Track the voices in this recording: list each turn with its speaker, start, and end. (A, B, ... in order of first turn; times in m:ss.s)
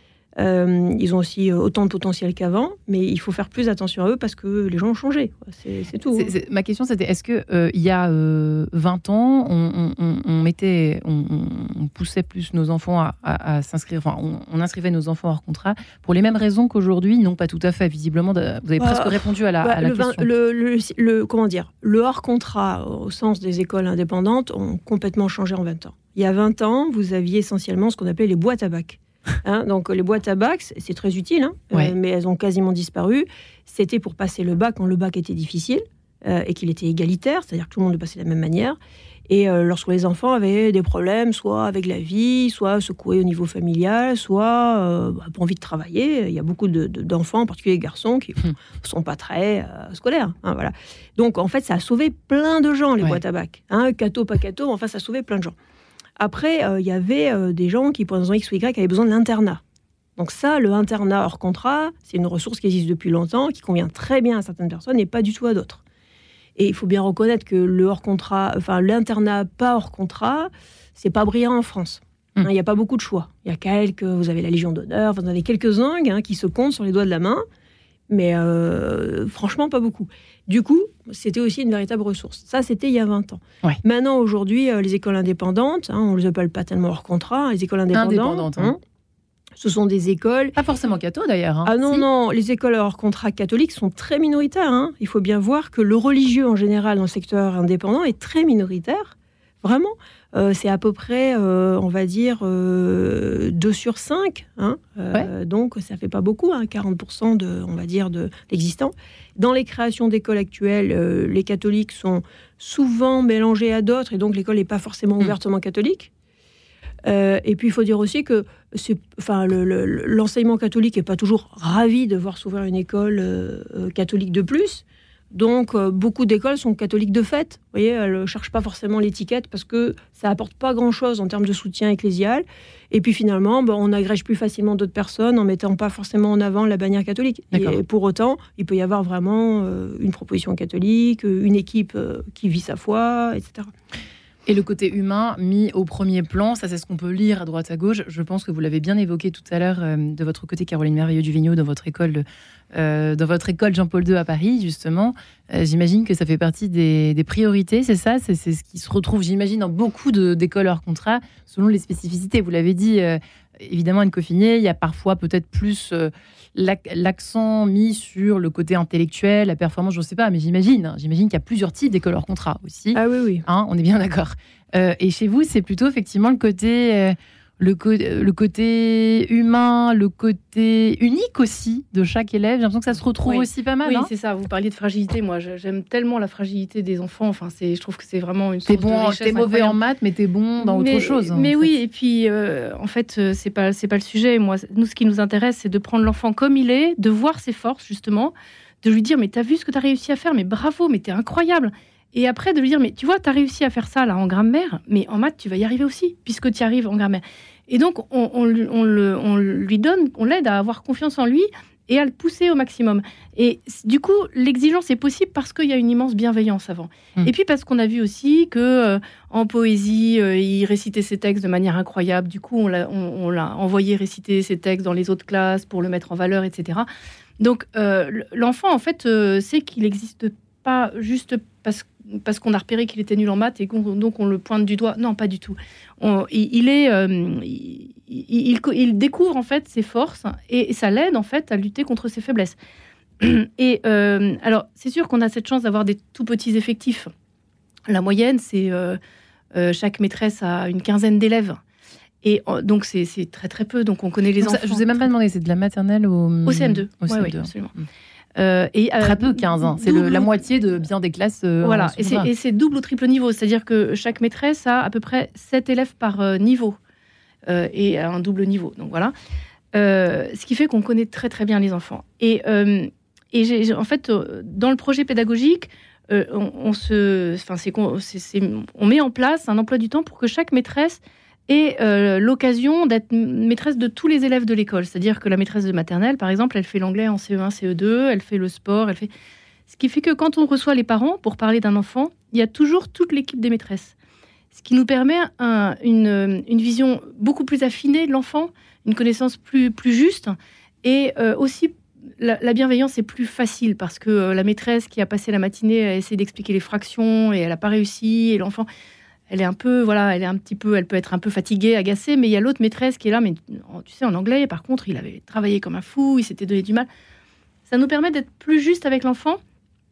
0:00.4-0:06.3 A
0:06.1-0:20.2 B
0:18.8-0:55.5 A
0:56.2-0:59.6 A
1:00.2-1:05.8 A
1:06.6-1:17.4 A
1:18.1-1:28.8 A
1:27.9-1:28.7 B
1:29.6-1:30.6 A
1:30.6-1:32.0 B
1:31.6-1:56.1 A
1:57.0-2:23.7 A
2:17.5-2:17.8 B
2:24.4-3:04.1 B
2:52.9-2:53.4 A
3:03.2-3:09.8 C
3:08.7-3:11.7 B
3:10.6-3:46.9 C
3:47.4-4:02.6 C
4:03.2-4:07.1 C
4:07.9-4:09.0 C
4:09.5-4:11.6 C
4:12.2-4:15.0 C
4:14.4-4:17.8 B
4:16.4-4:17.7 C
4:18.4-4:20.3 C
4:19.0-4:22.3 B
4:21.6-4:26.8 C
4:27.4-4:29.1 C
4:29.7-4:49.1 C
4:49.7-4:53.9 C
4:54.5-5:08.6 C
5:09.3-5:16.9 C
5:17.7-5:19.4 C